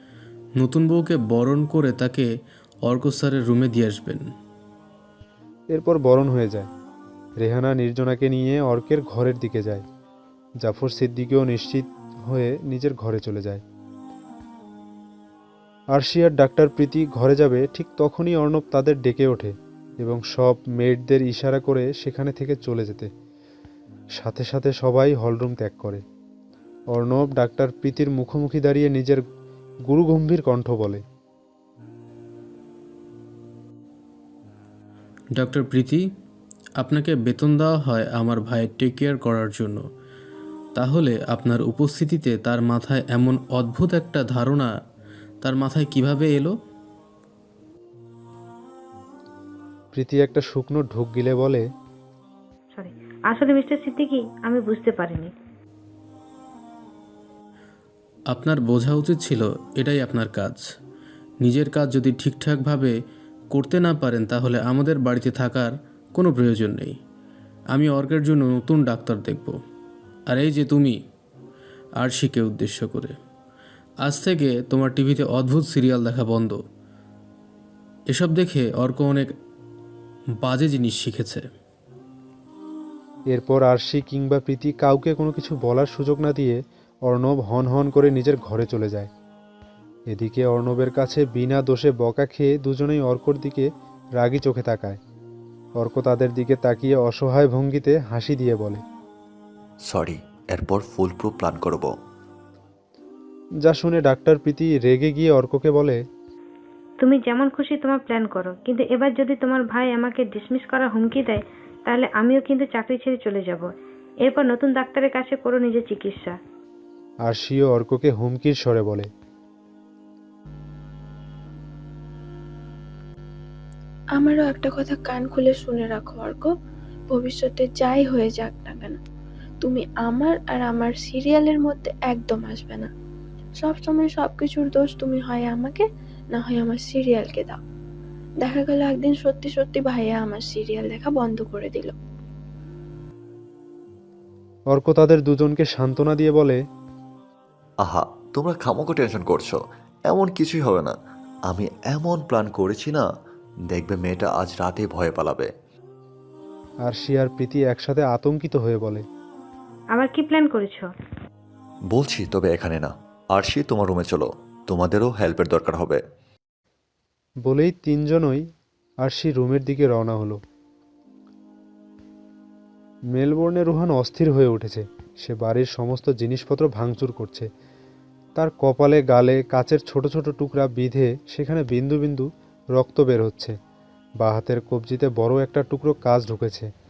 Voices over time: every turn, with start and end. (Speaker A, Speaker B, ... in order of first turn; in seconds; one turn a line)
Speaker A: 0.6-2.2
Speaker A: 2.8-4.2
Speaker B: 5.7-6.7
Speaker B: 7.4-9.8
Speaker B: 10.6-13.6
Speaker B: 15.9-23.1
Speaker B: 24.2-26.0
Speaker B: 26.9-29.2
Speaker B: 29.9-31.0
Speaker A: 35.4-36.0
Speaker A: 36.8-39.8
Speaker A: 40.8-44.7
Speaker A: 45.4-46.5
Speaker B: 49.9-51.6
Speaker C: 52.7-55.3
Speaker A: 58.3-60.6
Speaker A: 61.4-62.9
Speaker A: 63.5-67.0
Speaker A: 67.7-69.5
Speaker A: 70.3-71.0
Speaker A: 72.0-73.1
Speaker A: 74.0-76.6
Speaker A: 78.1-79.3
Speaker A: 80.4-81.4
Speaker B: 83.3-89.1
Speaker B: 90.1-95.0
Speaker B: 95.8-98.8
Speaker D: 99.9-101.9
Speaker B: 103.6-106.0
Speaker C: 107.0-113.7
Speaker C: 114.2-116.3
Speaker B: 117.2-119.1
Speaker E: 124.2-126.5
Speaker E: 127.1-129.0
Speaker E: 129.6-132.9
Speaker E: 133.6-137.6
Speaker E: 138.4-141.9
Speaker B: 144.7-146.6
Speaker D: 147.8-149.6
Speaker D: 150.1-150.9
Speaker D: 151.5-153.0
Speaker D: 153.7-155.5
Speaker B: 156.8-159.0
Speaker C: 159.9-160.9
Speaker D: 161.9-166.0
Speaker B: 167.4-168.4
Speaker B: 169.0-170.4
Speaker B: 173.1-177.5
Speaker B: 178.4-183.5
Speaker B: 184.2-186.7